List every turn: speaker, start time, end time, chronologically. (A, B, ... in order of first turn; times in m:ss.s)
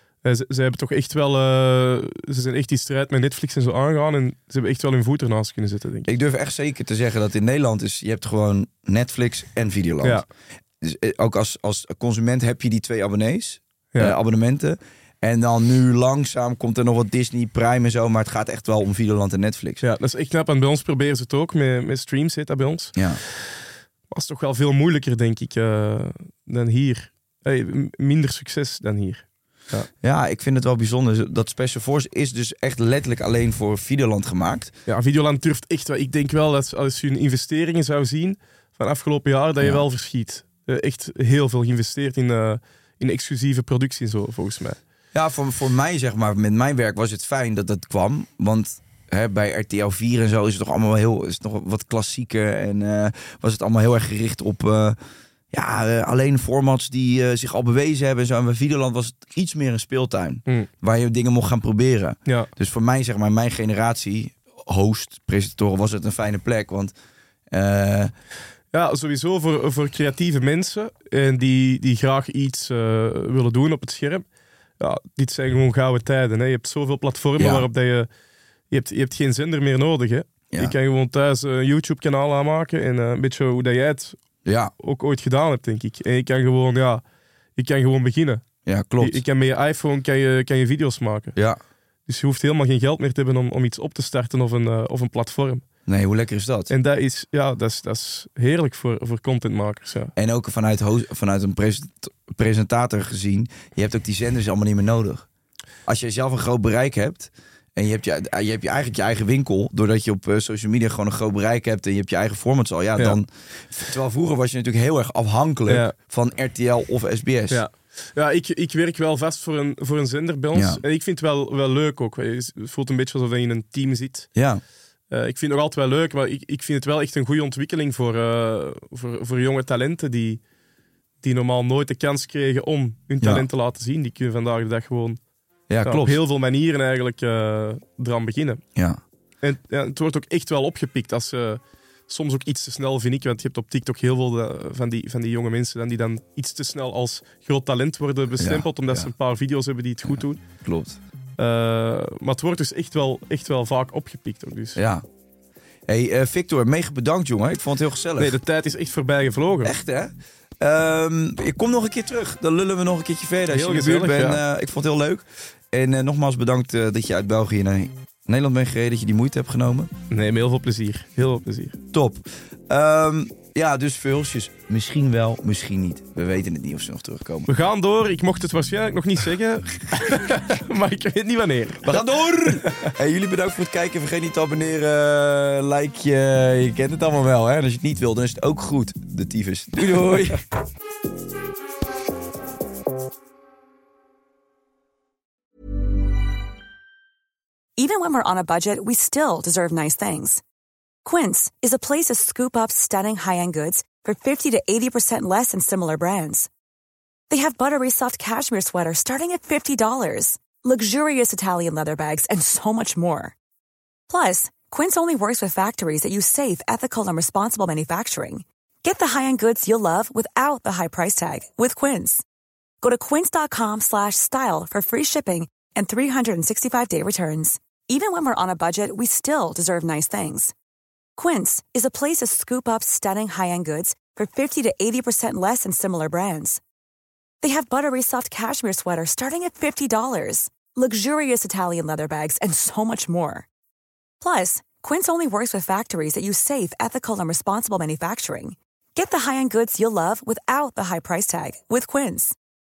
0:00.2-0:06.1 A
0:06.0-0:10.2 B
0:10.8-0:19.8 B
0:19.8-0:23.5 A
0:24.1-0:29.9 A
0:30.0-0:34.7 B
0:34.9-0:44.8 A
0:45.1-0:55.0 B
0:55.5-1:06.9 B
1:07.5-1:08.1 B
1:08.7-1:14.2 A
1:14.8-1:18.1 A
1:17.4-1:17.7 B
1:18.7-1:24.2 A
1:24.4-1:24.7 B
1:24.8-1:27.0 A
1:27.6-1:28.4 A
1:28.6-1:29.2 B
1:29.0-1:31.4 A
1:32.1-1:35.6 A
1:35.9-1:36.7 B
1:36.7-1:40.1 A
1:40.2-1:45.2 B
1:45.8-1:57.6 B
1:55.7-1:55.9 A
1:57.5-2:04.3 A
2:00.5-2:00.8 B
2:04.3-2:04.6 B
2:05.1-2:10.4 A
2:11.2-2:15.2 A
2:13.2-2:13.4 B
2:15.7-2:16.2 B
2:15.8-2:18.6 A
2:18.7-2:19.0 B
2:19.4-2:30.4 A
2:28.4-2:29.1 B
2:30.0-2:31.0 B
2:31.4-2:34.8 A
2:34.7-2:35.0 B
2:35.9-2:38.4 B
2:38.2-2:39.7 A
2:39.6-2:49.9 B
2:43.5-2:44.4 A
2:50.1-2:51.8 A
2:51.9-2:57.5 B
2:57.5-3:02.9 A
3:01.8-3:10.4 B
3:17.8-3:20.4 C
3:21.0-3:26.5 C
3:27.3-3:33.3 C
3:34.1-3:42.2 C
3:42.8-3:50.5 C
3:51.2-3:56.6 C
3:57.4-4:03.4 C
4:04.2-4:12.3 C